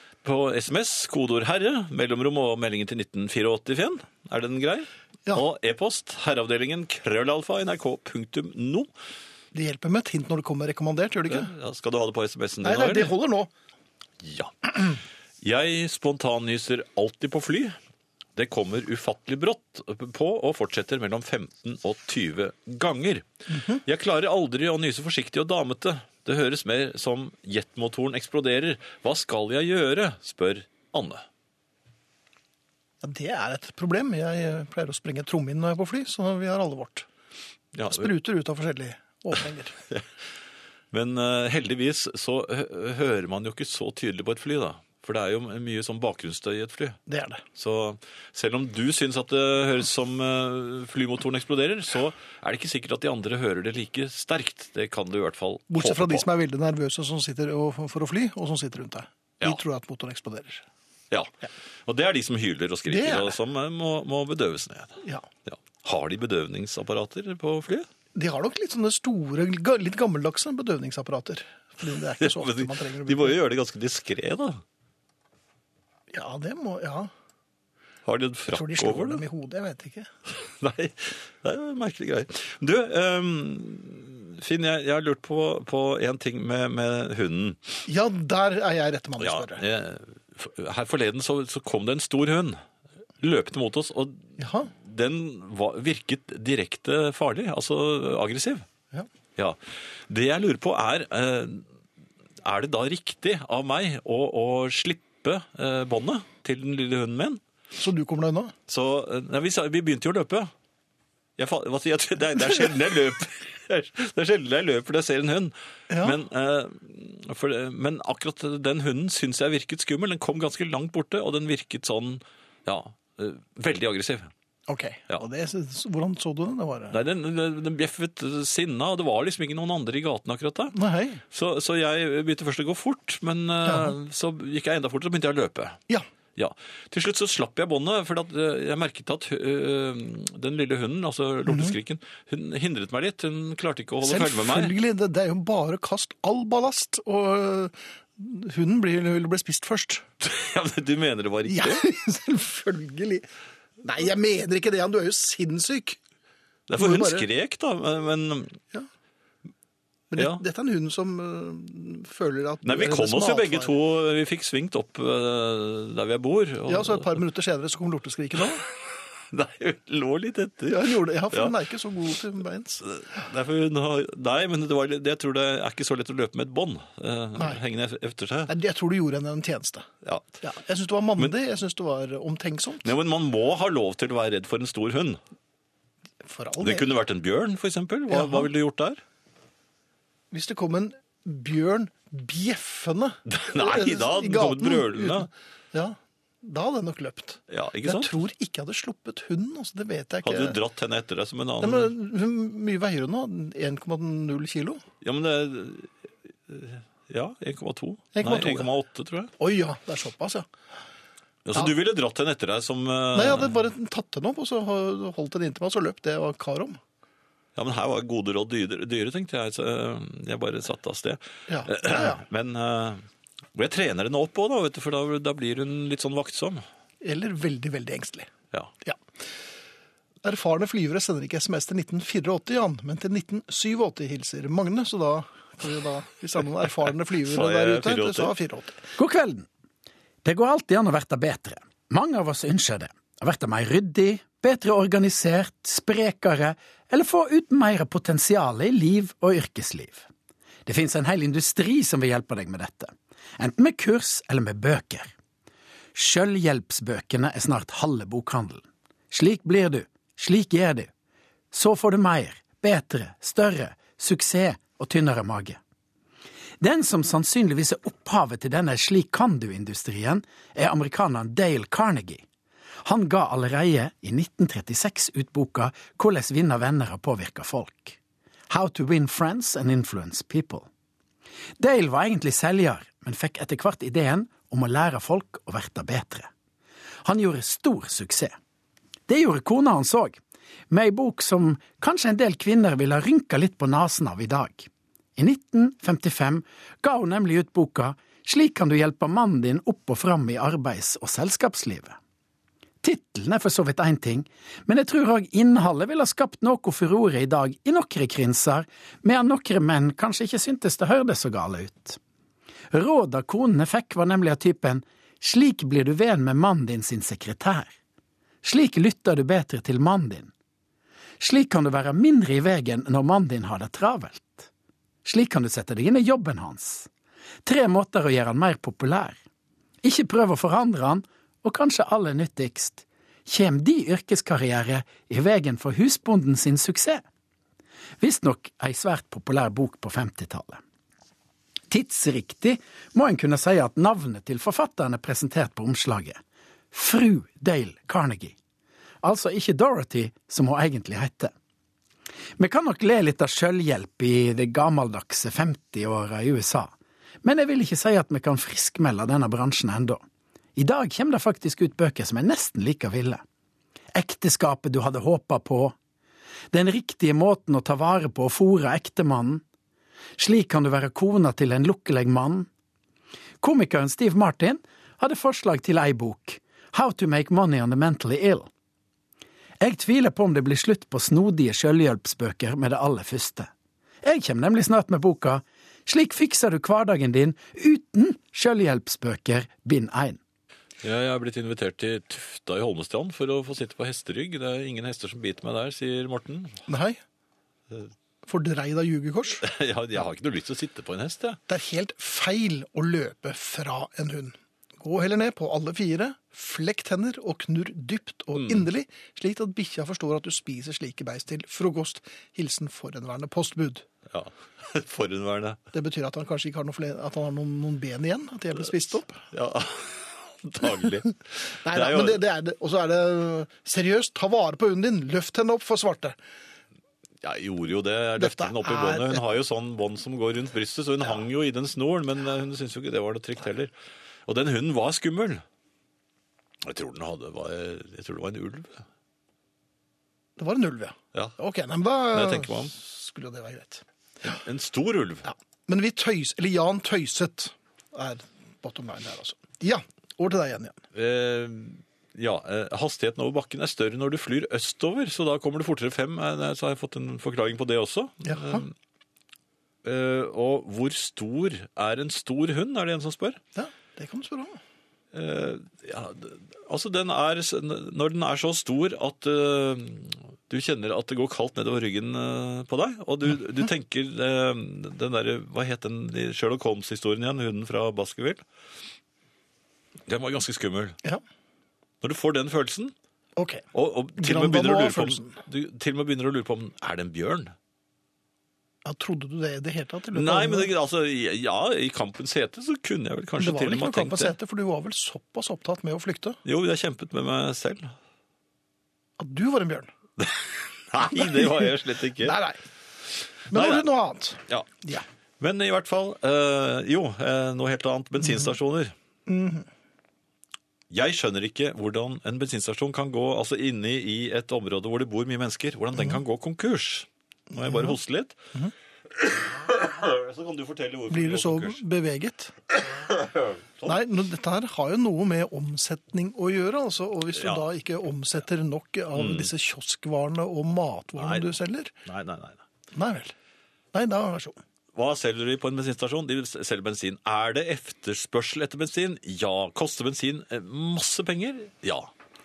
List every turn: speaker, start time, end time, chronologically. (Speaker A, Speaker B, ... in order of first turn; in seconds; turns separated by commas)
Speaker A: 0.2-8.9, Speaker B: 9.5-11.5, Speaker A: 11.3-13.1, Speaker B: 12.6-13.5, Speaker A: 14.2-17.8, Speaker A: 18.4-31.2, Speaker B: 23.5-23.8, Speaker B: 33.0-37.1, Speaker A: 37.7-38.1, Speaker B: 37.9-39.8, Speaker A: 40.9-47.0, Speaker B: 47.1-47.4, Speaker A: 47.5-56.3, Speaker B: 55.7-60.6, Speaker A: 61.9-67.9, Speaker B: 62.9-63.4, Speaker B: 68.2-73.4, Speaker A: 72.2-74.6, Speaker B: 76.1-77.1, Speaker A: 78.1-79.2, Speaker B: 78.5-80.1, Speaker A: 80.3-87.8, Speaker B: 87.9-89.6, Speaker A: 89.2-92.6, Speaker A: 93.2-98.7, Speaker B: 94.4-94.7, Speaker A: 99.4-101.7, Speaker A: 102.4-107.4, Speaker B: 107.8-108.5, Speaker A: 108.7-110.5, Speaker A: 111.4-124.3, Speaker B: 115.9-116.2, Speaker B: 124.7-127.0, Speaker A: 126.9-130.8, Speaker B: 130.7-131.2, Speaker A: 131.3-135.8, Speaker B: 133.7-133.9, Speaker A: 136.4-144.7, Speaker B: 141.5-141.8, Speaker B: 144.0-150.1, Speaker A: 150.2-151.8, Speaker B: 151.5-153.3, Speaker B: 153.8-156.0, Speaker A: 156.7-158.6, Speaker B: 156.8-157.3, Speaker B: 160.1-163.7, Speaker A: 160.1-160.4, Speaker A: 162.6-167.2, Speaker B: 166.7-168.6, Speaker A: 168.6-171.6, Speaker B: 170.7-172.8, Speaker A: 172.8-178.5, Speaker B: 178.5-179.9, Speaker A: 180.0-180.4, Speaker B: 180.4-182.9, Speaker A: 182.8-185.2, Speaker B: 186.2-186.9, Speaker A: 186.6-189.0, Speaker B: 188.1-188.5, Speaker B: 190.3-200.6, Speaker A: 193.3-195.3, Speaker A: 197.5-198.1, Speaker A: 200.2-201.9, Speaker B: 201.6-204.8, Speaker A: 205.0-205.9, Speaker A: 206.5-209.3, Speaker B: 208.1-208.7, Speaker B: 209.4-210.5, Speaker A: 211.4-213.5, Speaker B: 213.1-216.8, Speaker A: 217.6-223.0, Speaker B: 221.5-222.2, Speaker A: 223.6-226.6, Speaker B: 227.0-228.3, Speaker B: 230.2-238.9, Speaker A: 237.2-238.3, Speaker C: 239.0-239.5, Speaker C: 240.2-250.1, Speaker C: 250.7-255.1, Speaker C: 255.9-260.9, Speaker C: 261.5-265.6, Speaker C: 266.6-272.2, Speaker C: 272.8-278.0, Speaker C: 278.5-280.7, Speaker C: 281.6-286.3, Speaker C: 287.0-288.4, Speaker C: 289.1-290.2, Speaker C: 290.7-302.0, Speaker C: 302.8-312.0, Speaker C: 312.7-317.7, Speaker C: 318.4-320.3, Speaker C: 321.2-324.5, Speaker C: 325.1-326.9, Speaker C: 327.4-329.2, Speaker C: 329.8-337.0, Speaker C: 338.0-340.6, Speaker C: 341.7-346.2, Speaker C: 346.7-348.4, Speaker C: 349.0-351.3, Speaker C: 352.4-360.0, Speaker C: 360.6-363.2, Speaker C: 363.9-365.8, Speaker C: 366.5-369.4, Speaker C: 370.2-372.5, Speaker C: 373.4-378.5, Speaker C: 379.6-383.5, Speaker C: 384.0-390.2, Speaker A: 390.8-396.6, Speaker B: 396.7-397.0, Speaker B: 398.2-399.5, Speaker A: 399.4-401.4, Speaker B: 401.5-413.9, Speaker A: 408.4-408.7, Speaker A: 414.1-415.6, Speaker B: 415.7-419.2, Speaker A: 419.3-422.2, Speaker B: 421.6-426.2, Speaker A: 427.2-433.7, Speaker B: 428.2-429.2, Speaker A: 434.3-435.4, Speaker A: 436.6-438.8, Speaker B: 440.4-444.4, Speaker A: 442.1-442.7, Speaker A: 444.3-445.3, Speaker B: 445.2-450.8, Speaker A: 450.9-458.7, Speaker B: 458.2-458.7, Speaker A: 459.8-463.4, Speaker B: 463.6-464.6, Speaker A: 465.1-478.4, Speaker A: 480.1-481.0, Speaker A: 482.0-482.9, Speaker B: 483.4-483.6, Speaker A: 483.7-487.5, Speaker B: 484.2-485.4, Speaker B: 488.9-490.7, Speaker A: 490.1-494.4, Speaker B: 493.4-496.4, Speaker A: 496.4-497.9, Speaker B: 499.2-499.9, Speaker A: 500.2-502.4, Speaker B: 501.1-502.6, Speaker B: 503.5-505.1, Speaker A: 503.5-503.9, Speaker A: 505.4-508.9, Speaker B: 509.3-509.7, Speaker A: 510.9-518.4, Speaker B: 517.5-518.0, Speaker A: 519.1-521.8, Speaker B: 521.1-522.5, Speaker A: 522.7-524.0, Speaker B: 523.8-531.9, Speaker A: 527.4-527.6, Speaker A: 529.1-529.5, Speaker A: 531.2-531.5, Speaker A: 532.0-532.6, Speaker B: 532.9-533.3, Speaker B: 533.9-534.6, Speaker A: 535.0-542.1